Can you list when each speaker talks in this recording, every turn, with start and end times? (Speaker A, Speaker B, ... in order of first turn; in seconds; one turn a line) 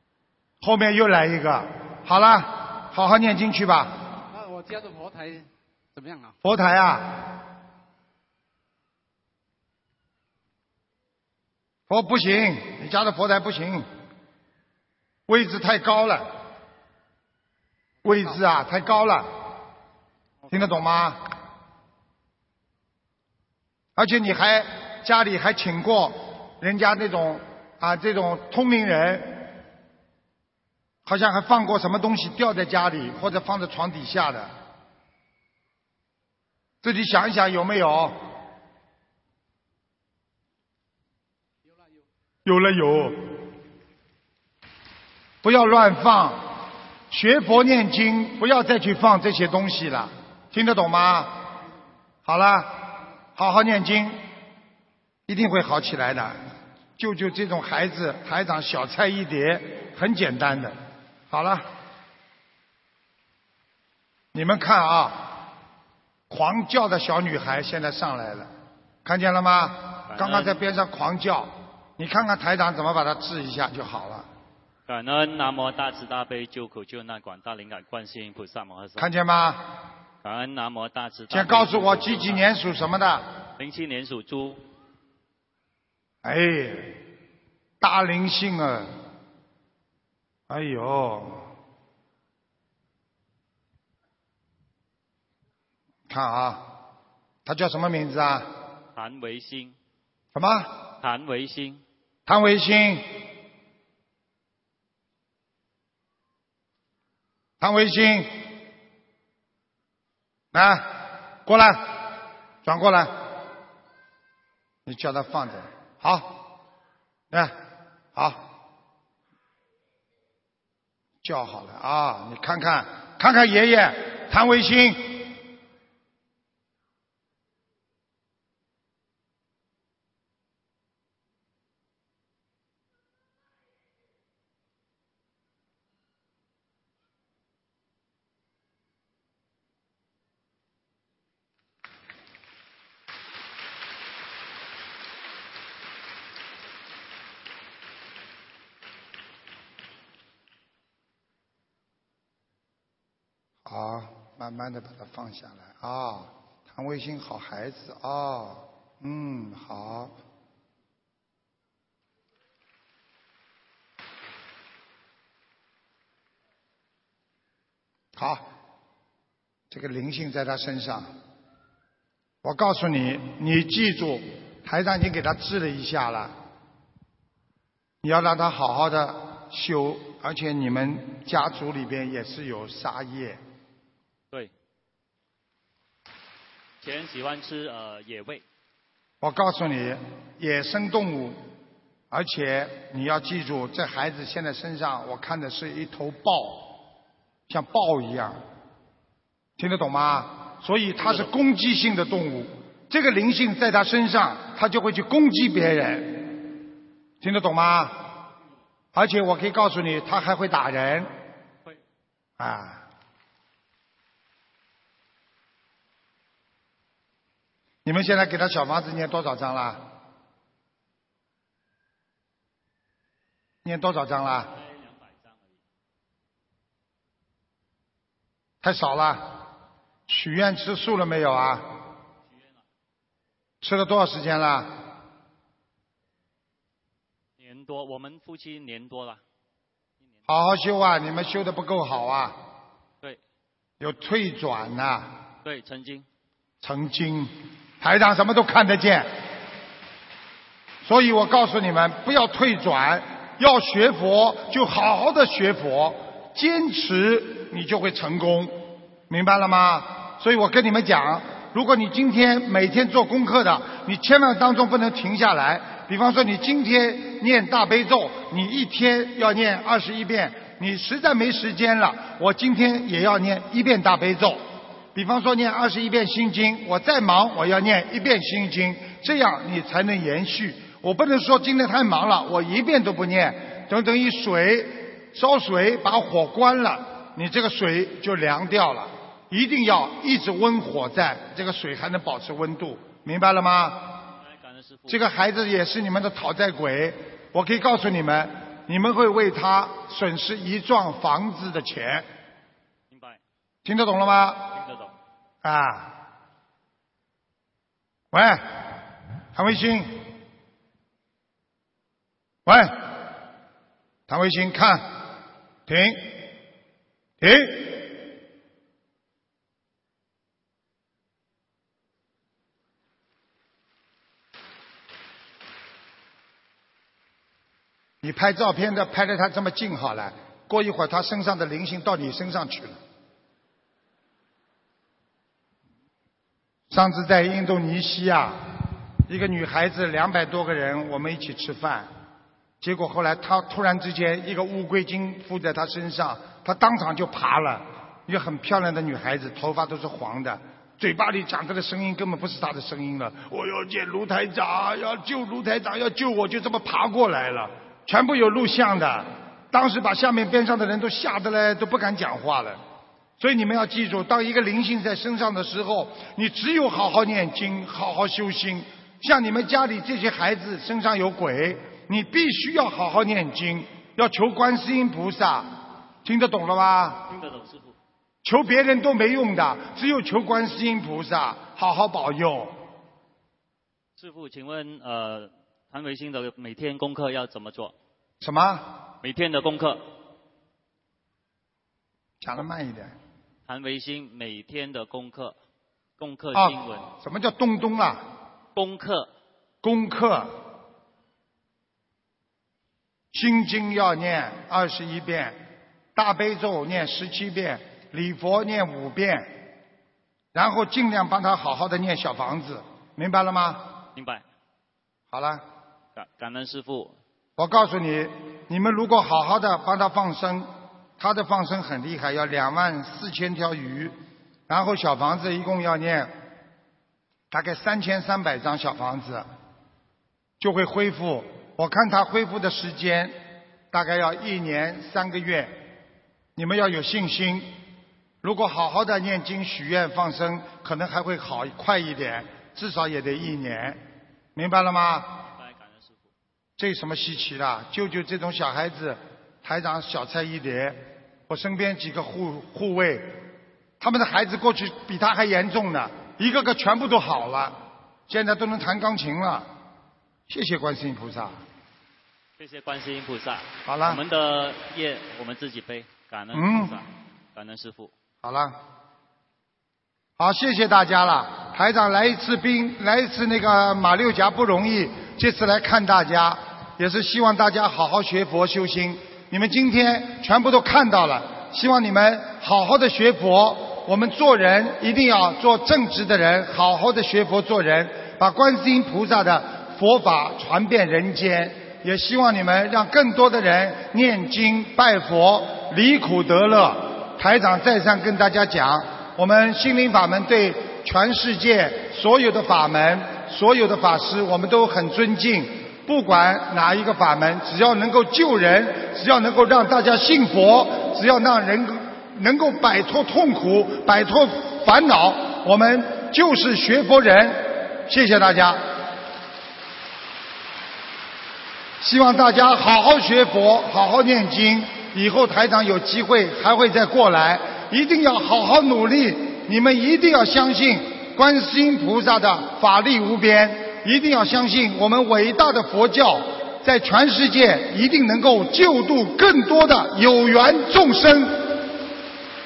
Speaker A: 0.6-3.9
Speaker B: 4.3-6.3
Speaker A: 6.4-7.3
Speaker A: 11.9-13.9
Speaker A: 15.3-16.3
Speaker A: 18.0-19.3
Speaker B: 18.0-18.4
Speaker A: 20.5-21.2
Speaker A: 24.0-29.5
Speaker A: 31.1-34.5
Speaker A: 36.8-38.1
Speaker A: 42.4-43.4
Speaker A: 45.4-46.5
Speaker A: 47.1-51.4
Speaker A: 52.2-54.2
Speaker A: 55.3-56.4
Speaker A: 57.0-60.8
Speaker A: 61.3-61.7
Speaker A: 64.3-65.4
Speaker A: 66.3-68.5
Speaker A: 69.0-74.2
Speaker C: 70.1-70.6
Speaker C: 74.9-79.1
Speaker A: 79.0-79.6
Speaker C: 80.2-82.4
Speaker A: 81.3-83.3
Speaker C: 83.6-84.6
Speaker A: 86.2-87.0
Speaker A: 87.8-88.9
Speaker A: 90.5-91.5
Speaker A: 96.1-96.7
Speaker A: 97.4-98.5
Speaker C: 98.9-99.7
Speaker A: 100.3-100.8
Speaker C: 101.0-101.8
Speaker A: 102.3-103.0
Speaker A: 107.6-108.4
Speaker A: 110.5-110.9
Speaker A: 111.5-112.1
Speaker A: 112.6-113.2
Speaker A: 114.8-116.4
Speaker A: 118.1-118.4
Speaker A: 121.2-125.3
Speaker A: 153.6-160.1
Speaker A: 168.2-168.4
Speaker A: 169.7-171.1
Speaker A: 172.4-176.3
Speaker A: 178.0-183.4
Speaker C: 186.8-188.4
Speaker A: 189.2-191.4
Speaker A: 192.1-196.8
Speaker A: 197.5-198.4
Speaker A: 199.6-206.4
Speaker A: 207.2-208.1
Speaker A: 208.9-211.1
Speaker A: 212.4-212.8
Speaker A: 217.8-219.8
Speaker A: 223.6-224.5
Speaker C: 224.4-225.6
Speaker A: 228.6-229.4
Speaker A: 230.1-231.7
Speaker C: 232.3-232.6
Speaker A: 233.6-234.8
Speaker C: 237.4-239.2
Speaker A: 240.3-242.4
Speaker A: 243.8-245.1
Speaker C: 245.4-246.0
Speaker A: 246.6-249.1
Speaker A: 250.8-258.6
Speaker A: 259.1-274.4
Speaker A: 274.9-294.0
Speaker C: 294.1-295.0
Speaker A: 294.9-302.1
Speaker C: 302.9-303.2
Speaker A: 303.6-304.5
Speaker C: 304.5-304.9
Speaker A: 305.4-306.0
Speaker A: 308.1-308.8
Speaker A: 309.3-310.0
Speaker A: 312.4-312.9
Speaker A: 314.1-315.0
Speaker A: 315.6-316.3
Speaker A: 317.2-317.9
Speaker A: 328.0-332.8
Speaker A: 336.7-338.4
Speaker A: 339.1-341.9
Speaker A: 342.6-362.6
Speaker A: 363.2-375.5
Speaker A: 376.0-377.1
Speaker C: 377.1-377.7
Speaker A: 378.2-382.6
Speaker C: 384.0-387.7
Speaker A: 388.2-388.7
Speaker C: 389.0-389.8
Speaker A: 392.2-392.9
Speaker C: 393.5-395.3
Speaker C: 396.0-396.9
Speaker A: 396.3-398.0
Speaker C: 398.5-399.1
Speaker A: 399.6-400.4
Speaker A: 403.1-405.4
Speaker A: 405.9-409.3
Speaker A: 410.3-413.7
Speaker C: 413.9-414.2
Speaker A: 415.1-415.4
Speaker C: 415.9-416.9
Speaker A: 417.4-423.9
Speaker A: 424.5-426.1
Speaker A: 427.3-429.2
Speaker A: 430.4-433.2
Speaker A: 433.7-435.6
Speaker A: 436.4-437.5
Speaker A: 438.2-443.8
Speaker A: 444.4-445.2
Speaker C: 445.3-446.1
Speaker A: 446.6-453.2
Speaker A: 453.8-459.5
Speaker A: 460.3-461.4
Speaker C: 462.4-467.9
Speaker A: 463.6-464.0
Speaker A: 466.3-466.8
Speaker A: 468.2-468.6
Speaker A: 470.2-518.6
Speaker A: 521.8-541.6